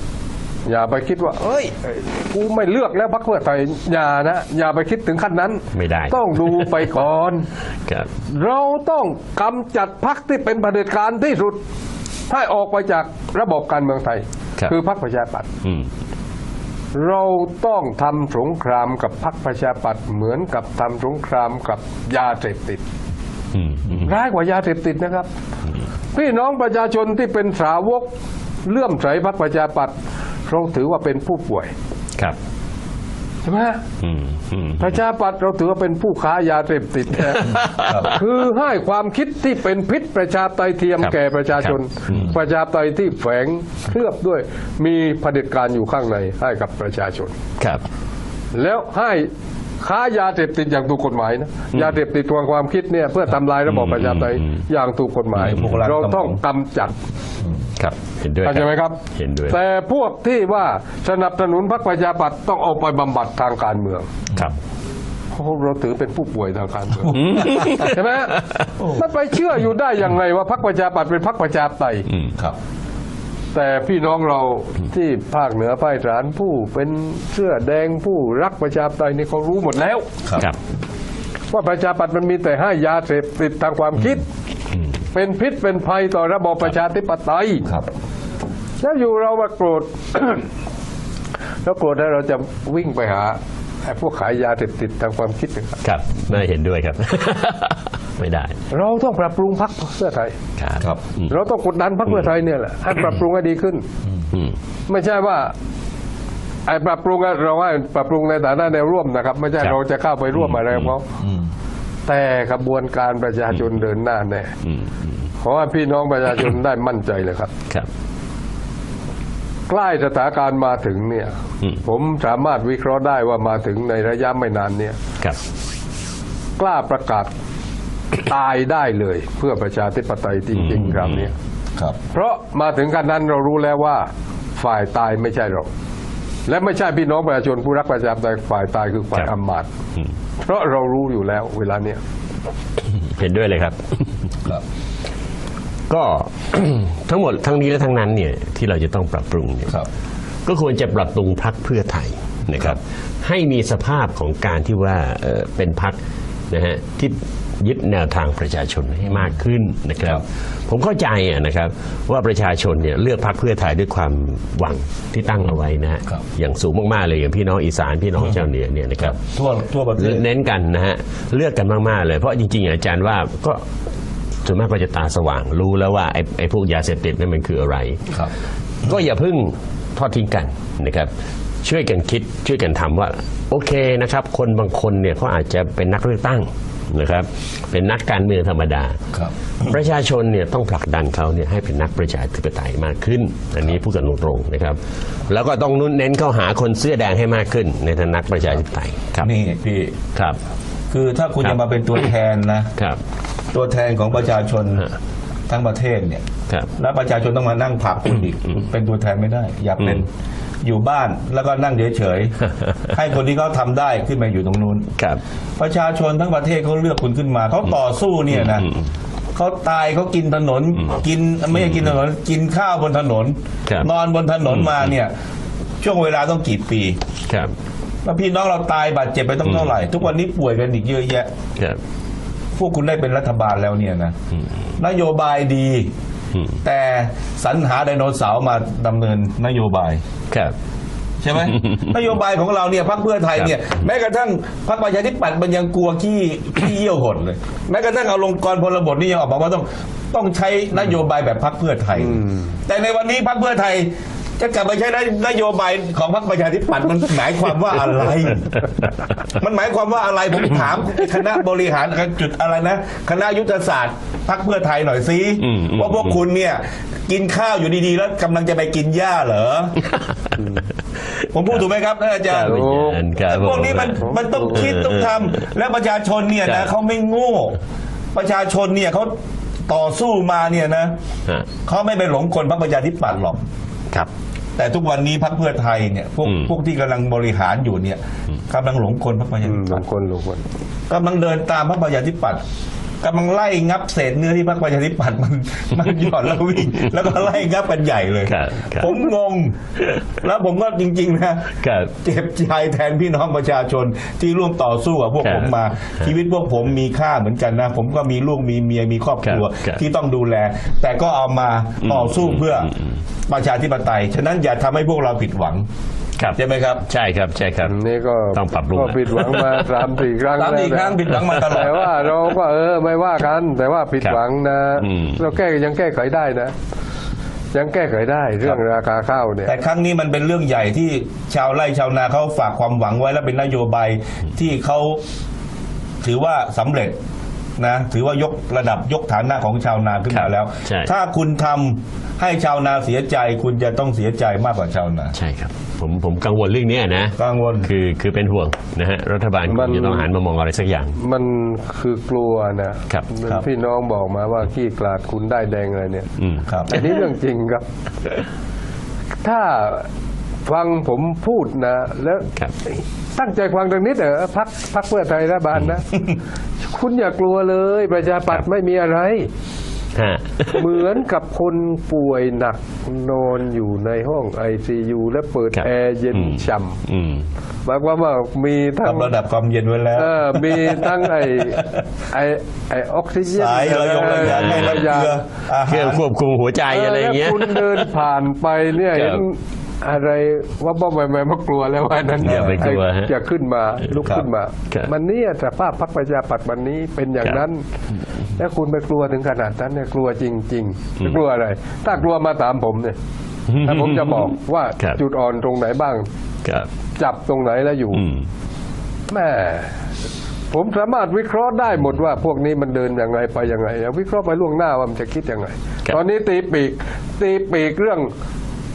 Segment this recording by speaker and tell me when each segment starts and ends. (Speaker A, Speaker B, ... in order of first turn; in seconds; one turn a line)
Speaker A: 0.7-7.5
Speaker B: 5.7-6.7
Speaker A: 8.3-11.6
Speaker A: 12.3-15.5
Speaker B: 15.6-15.9
Speaker A: 16.9-22.8
Speaker B: 23.5-24.1
Speaker A: 24.0-25.3
Speaker A: 26.1-28.1
Speaker A: 28.6-29.9
Speaker A: 30.5-31.7
Speaker A: 33.4-33.8
Speaker B: 34.0-34.9
Speaker A: 34.8-47.3
Speaker B: 37.5-38.1
Speaker C: 37.8-38.1
Speaker B: 41.0-42.3
Speaker A: 48.5-49.3
Speaker A: 49.8-56.9
Speaker B: 53.7-54.6
Speaker C: 55.4-56.4
Speaker B: 55.5-55.8
Speaker B: 57.8-59.6
Speaker A: 58.4-64.1
Speaker A: 65.3-68.4
Speaker C: 67.0-67.9
Speaker B: 67.1-68.6
Speaker C: 68.8-69.0
Speaker A: 68.9-72.1
Speaker A: 73.5-80.1
Speaker A: 81.5-84.2
Speaker A: 85.1-87.7
Speaker A: 88.8-90.5
Speaker A: 91.6-95.8
Speaker B: 95.8-98.5
Speaker A: 98.7-100.3
Speaker B: 100.6-101.3
Speaker A: 101.3-103.8
Speaker A: 104.9-105.5
Speaker A: 106.7-111.0
Speaker B: 110.3-110.9
Speaker C: 111.2-111.5
Speaker A: 112.0-114.5
Speaker B: 114.7-114.9
Speaker A: 115.4-117.5
Speaker A: 119.7-125.0
Speaker A: 126.6-127.3
Speaker A: 128.2-131.3
Speaker B: 130.6-131.2
Speaker A: 132.1-135.7
Speaker A: 136.5-139.7
Speaker A: 140.4-142.0
Speaker B: 143.1-144.0
Speaker B: 145.9-149.7
Speaker B: 150.4-156.0
Speaker B: 156.5-169.2
Speaker C: 169.0-170.2
Speaker B: 170.0-173.6
Speaker B: 174.4-178.0
Speaker B: 178.8-181.1
Speaker B: 181.6-189.0
Speaker C: 189.1-189.7
Speaker B: 189.6-194.8
Speaker B: 195.3-199.3
Speaker C: 199.2-200.0
Speaker C: 200.9-202.7
Speaker B: 201.4-202.0
Speaker C: 203.5-204.9
Speaker C: 205.5-206.2
Speaker C: 206.8-210.1
Speaker C: 210.6-214.9
Speaker C: 215.6-218.7
Speaker B: 218.3-218.8
Speaker C: 219.3-225.1
Speaker B: 224.5-224.9
Speaker C: 225.8-227.0
Speaker C: 228.0-231.3
Speaker B: 229.4-229.7
Speaker C: 232.6-234.1
Speaker C: 234.8-235.9
Speaker C: 236.6-240.0
Speaker C: 241.2-258.7
Speaker B: 241.4-241.9
Speaker A: 252.0-252.4
Speaker C: 259.3-269.8
Speaker B: 265.4-266.2
Speaker A: 270.4-270.6
Speaker C: 271.3-277.6
Speaker B: 272.3-275.2
Speaker A: 272.5-273.0
Speaker A: 274.0-274.7
Speaker B: 276.4-276.7
Speaker C: 278.1-279.1
Speaker C: 279.7-280.9
Speaker C: 281.6-283.4
Speaker C: 284.6-289.8
Speaker A: 289.4-290.4
Speaker C: 290.9-292.4
Speaker C: 293.0-299.6
Speaker B: 298.3-299.0
Speaker C: 300.2-312.7
Speaker B: 301.6-301.9
Speaker B: 305.2-305.6
Speaker B: 309.2-309.8
Speaker B: 311.8-312.7
Speaker C: 313.3-315.6
Speaker C: 316.3-316.8
Speaker B: 316.9-317.7
Speaker A: 317.6-326.5
Speaker B: 318.3-319.8
Speaker C: 320.3-321.8
Speaker B: 321.1-321.7
Speaker B: 324.8-325.2
Speaker A: 327.5-329.5
Speaker C: 329.4-335.0
Speaker C: 336.0-337.0
Speaker C: 337.6-345.1
Speaker B: 340.1-340.9
Speaker B: 345.1-351.0
Speaker C: 347.2-347.7
Speaker A: 349.5-350.1
Speaker A: 351.0-356.1
Speaker B: 356.2-356.8
Speaker C: 356.5-356.8
Speaker A: 356.7-357.6
Speaker A: 359.2-359.9
Speaker A: 360.4-366.0
Speaker A: 366.7-369.3
Speaker B: 369.9-370.7
Speaker A: 370.5-376.8
Speaker B: 375.5-377.2
Speaker A: 377.6-379.1
Speaker C: 378.8-381.8
Speaker A: 379.9-385.2
Speaker C: 383.2-386.0
Speaker B: 384.1-384.9
Speaker B: 385.6-387.9
Speaker A: 386.7-397.6
Speaker B: 388.9-389.2
Speaker B: 392.2-393.1
Speaker C: 392.2-392.7
Speaker A: 398.4-402.9
Speaker B: 403.5-405.0
Speaker A: 403.6-406.1
Speaker A: 407.0-408.1
Speaker B: 407.9-408.2
Speaker A: 409.1-409.7
Speaker A: 410.5-418.1